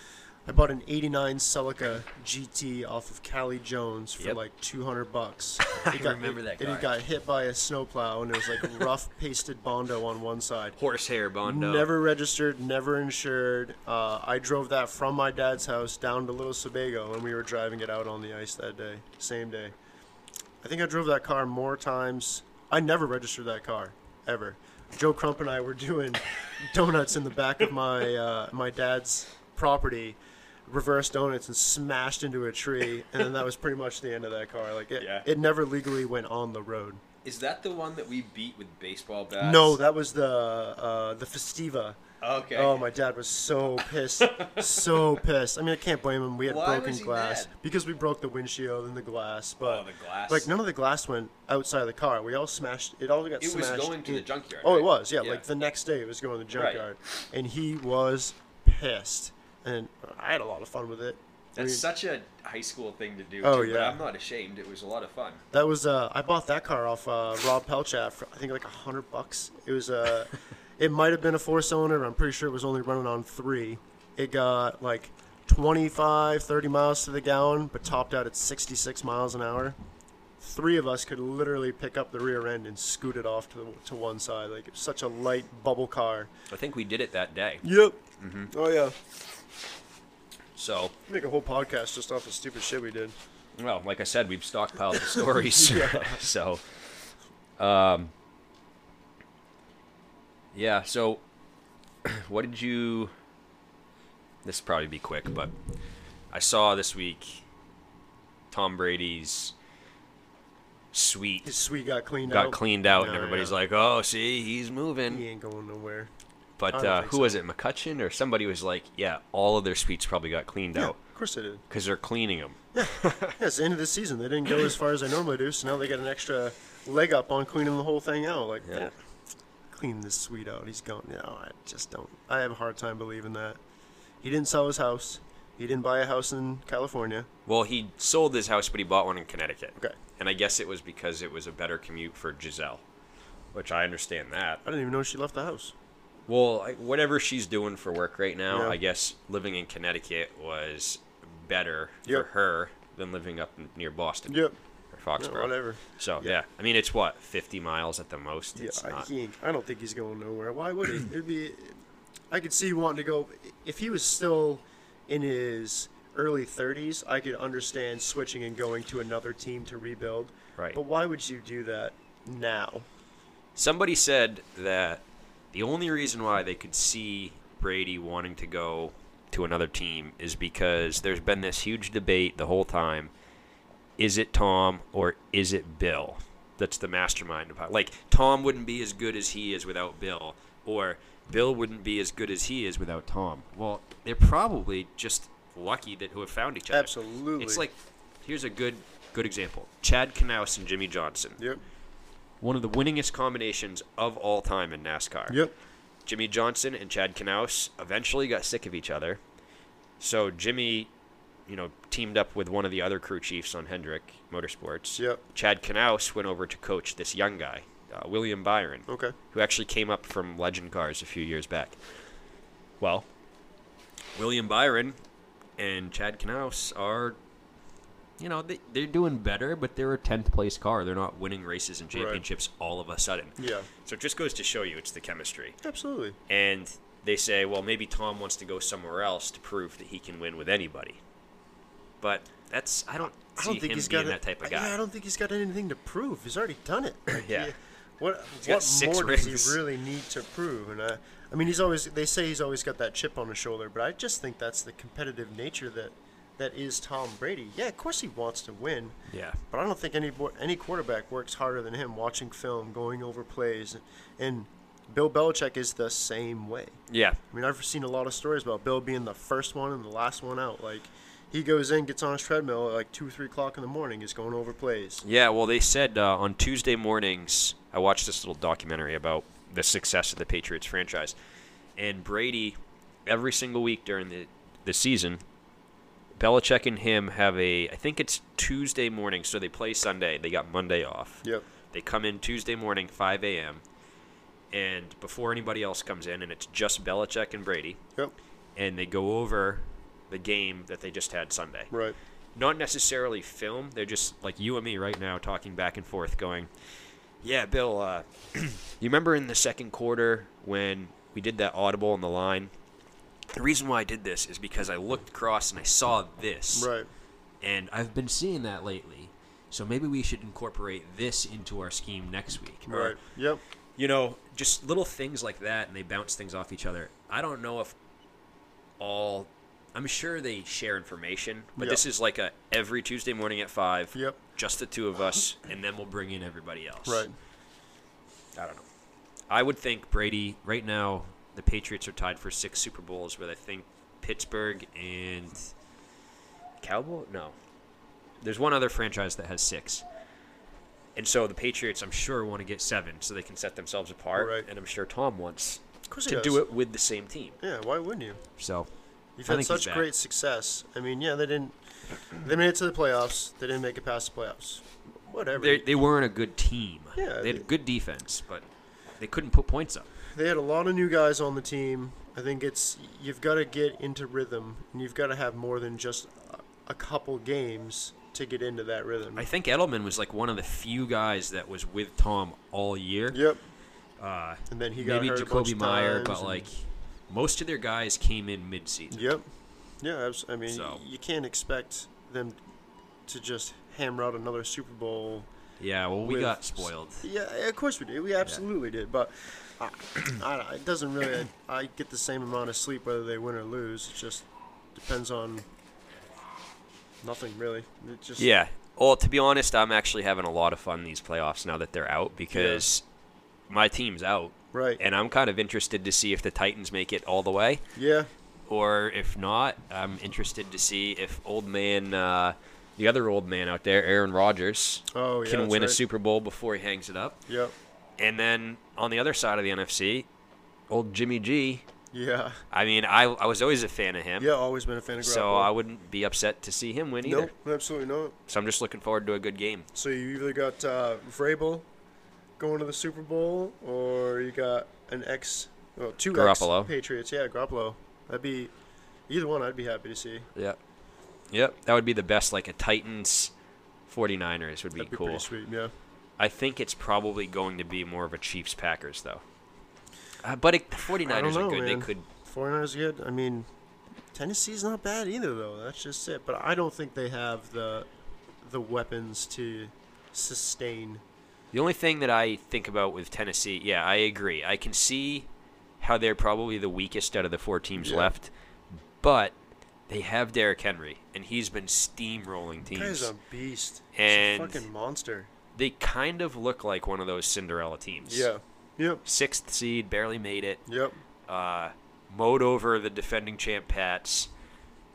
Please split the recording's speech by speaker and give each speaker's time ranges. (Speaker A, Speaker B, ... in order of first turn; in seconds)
Speaker A: 0.5-10.8, 11.4-19.8, 20.6-37.0, 39.4-42.0, 42.5-61.8, 63.4-64.0, 65.5-79.8, 80.4-86.3, 87.6-89.0, 91.1-93.2, 95.1-96.2, 111.4-113.5, 115.1-116.1, 116.7-117.4, 120.8-121.6, 122.7-128.9, 129.7-133.6, 134.2-137.3, 144.6-145.7, 148.5-148.8, 154.3-154.6, 155.2-156.3, 158.6-172.9, 196.7-197.6, 205.3-205.6, 215.0-215.2, 218.9-219.1, 231.9-232.2, 233.4-233.7, 235.6-236.2, 243.2-259.0, 259.5-275.0, 301.7-302.0, 316.5-316.9, 322.7-323.4, 331.6-331.8, 336.9-337.1, 354.1-354.5, 355.9-356.4, 357.4-358.2, 359.2-361.6, 362.1-365.8, 366.9-367.5, 370.1-379.3, 383.1-383.4, 384.5-386.5, 388.9-389.2, 389.8-392.4, 393.1-395.3, 396.0-405.4, 407.0-408.3, 412.3-412.6, 414.5-414.8, 417.8-418.1, 424.9-425.8, 427.3-427.5, 431.9-432.4, 434.2-435.5, 437.0-438.1, 439.7-441.6, 442.4-448.5, 449.1-450.3, 454.8-455.7, 461.0-463.5, 464.1-467.9, 468.4-471.0, 477.8-478.1, 482.7-485.3, 488.1-489.0, 490.7-491.0
Speaker B: 5.6-6.9, 10.8-11.9, 35.0-35.3, 37.2-39.8, 42.2-42.9, 44.2-45.1, 46.4-47.5, 49.6-50.5, 53.4-55.4, 56.5-56.9, 61.6-65.4, 86.5-87.7, 88.2-88.5, 90.6-90.9, 93.6-97.1, 97.6-98.1, 100.5-101.2, 102.0-103.1, 104.4-105.5, 106.3-107.4, 108.5-109.5, 110.9-111.5, 112.3-115.2, 116.6-121.0, 121.7-123.4, 137.4-142.8, 143.5-144.6, 146.3-154.4, 154.9-159.1, 173.6-183.1, 184.0-201.4, 202.4-205.4, 206.1-209.2, 210.0-210.9, 211.5-221.8, 222.8-223.1, 224.1-225.0, 225.6-227.2, 228.2-235.6, 236.3-241.0, 242.0-244.8, 247.1-247.5, 248.4-249.6, 259.1-259.4, 266.9-267.2, 275.0-281.1, 281.8-285.2, 286.2-293.6, 294.5-297.8, 298.6-301.7, 302.4-306.5, 307.2-312.5, 313.3-316.7, 317.4-323.0, 323.8-327.8, 328.8-337.1, 338.4-338.6, 339.3-345.5, 346.6-347.4, 348.2-349.8, 350.9-357.4, 358.4-358.7, 359.3-359.9, 365.4-368.4, 369.0-369.9, 379.1-383.2, 384.0-389.1, 390.5-390.8, 395.6-397.1, 408.2-412.9, 413.5-417.6, 418.5-427.2, 428.0-430.1, 430.7-431.6, 432.5-434.3, 435.0-437.3, 438.3-439.7, 446.1-446.7, 451.3-453.3, 453.9-455.3, 456.2-459.2, 460.2-462.1, 471.5-475.3, 475.8-478.3, 479.0-479.4, 479.9-483.1, 483.9-484.6, 485.6-488.3, 489.0-490.6, 491.3-494.3